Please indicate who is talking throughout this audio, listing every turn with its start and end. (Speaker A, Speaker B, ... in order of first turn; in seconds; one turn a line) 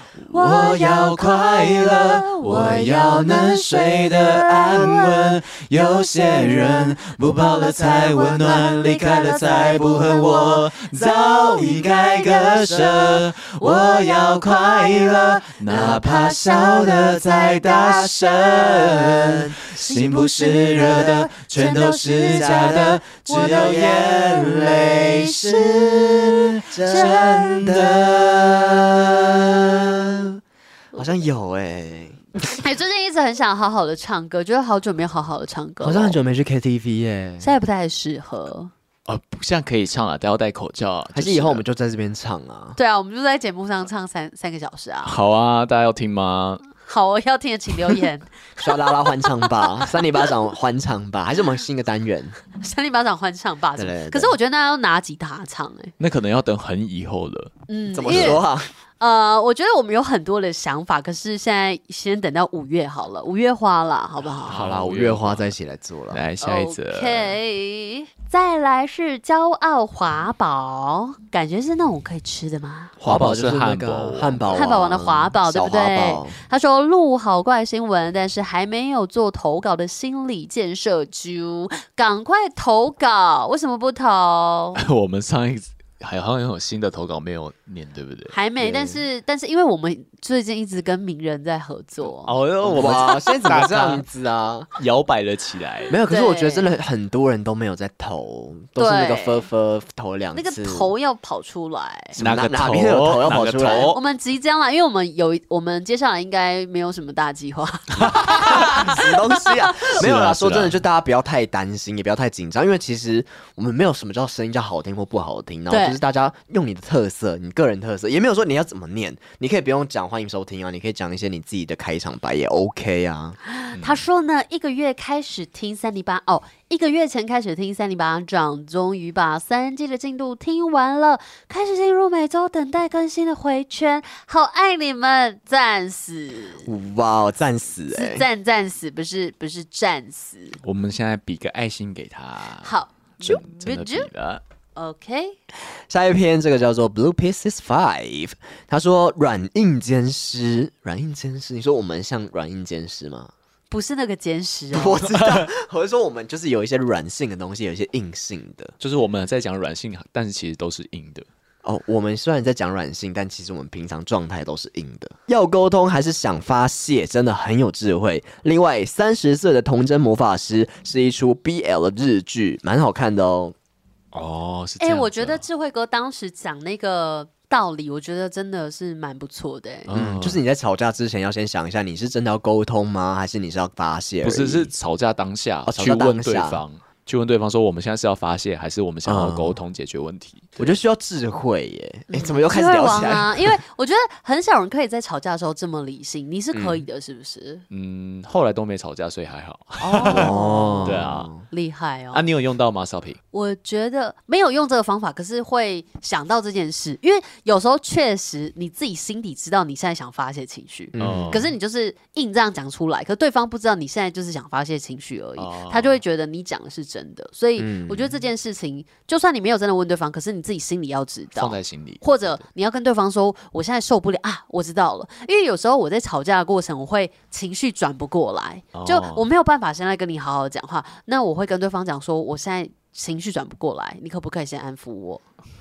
Speaker A: 0.3-10.7
Speaker B: 0.3-28.8
Speaker C: 11.2-11.8
Speaker C: 12.4-13.1
Speaker A: 13.6-18.7
Speaker C: 15.7-16.3
Speaker C: 18.8-19.6
Speaker A: 19.7-27.7
Speaker C: 20.6-24.9
Speaker C: 25.6-30.3
Speaker C: 30.9-32.2
Speaker A: 32.4-36.2
Speaker C: 35.8-37.5
Speaker A: 37.4-38.7
Speaker B: 39.1-41.6
Speaker C: 41.1-42.8
Speaker A: 42.8-45.2
Speaker B: 45.0-46.6
Speaker A: 46.8-50.0
Speaker C: 48.6-52.4
Speaker A: 52.5-55.9
Speaker C: 53.8-54.3
Speaker B: 56.0-57.5
Speaker A: 57.7-58.4
Speaker C: 57.9-58.7
Speaker B: 58.1-58.4
Speaker A: 59.0-64.6
Speaker B: 64.5-65.5
Speaker C: 64.5-66.2
Speaker B: 66.1-67.3
Speaker A: 66.4-72.9
Speaker C: 73.0-76.3
Speaker B: 73.0-74.7
Speaker A: 74.5-84.8
Speaker B: 84.8-88.3
Speaker A: 88.3-93.0
Speaker C: 88.6-89.0
Speaker B: 92.2-94.0
Speaker C: 92.6-94.7
Speaker B: 94.8-96.0
Speaker C: 95.9-100.9
Speaker A: 96.0-96.7
Speaker A: 98.8-99.5
Speaker A: 100.3-102.2
Speaker C: 102.2-103.9
Speaker B: 102.2-104.0
Speaker A: 103.6-109.8
Speaker C: 108.0-123.4
Speaker B: 108.2-109.0
Speaker B: 109.8-110.8
Speaker A: 115.7-116.0
Speaker A: 123.5-136.7
Speaker B: 123.7-124.0
Speaker C: 136.6-138.2
Speaker A: 137.9-140.6
Speaker B: 140.6-142.7
Speaker A: 142.6-144.1
Speaker B: 143.2-144.4
Speaker A: 144.8-145.3
Speaker C: 145.9-153.3
Speaker A: 153.7-155.0
Speaker C: 154.7-158.7
Speaker B: 155.1-155.5
Speaker B: 158.8-161.2
Speaker C: 161.6-173.5
Speaker B: 174.1-175.4
Speaker A: 174.8-179.9
Speaker B: 179.9-180.4
Speaker C: 179.9-184.7
Speaker B: 184.2-190.7
Speaker C: 185.7-186.6
Speaker C: 189.1-189.6
Speaker C: 190.6-193.6
Speaker A: 192.1-197.6
Speaker C: 196.5-196.8
Speaker B: 197.7-201.3
Speaker A: 199.8-202.2
Speaker C: 199.9-201.4
Speaker B: 202.1-203.2
Speaker A: 203.3-235.2
Speaker C: 210.9-211.4
Speaker B: 211.0-211.5
Speaker B: 215.4-216.0
Speaker C: 217.6-218.1
Speaker B: 221.3-222.4
Speaker B: 228.7-229.3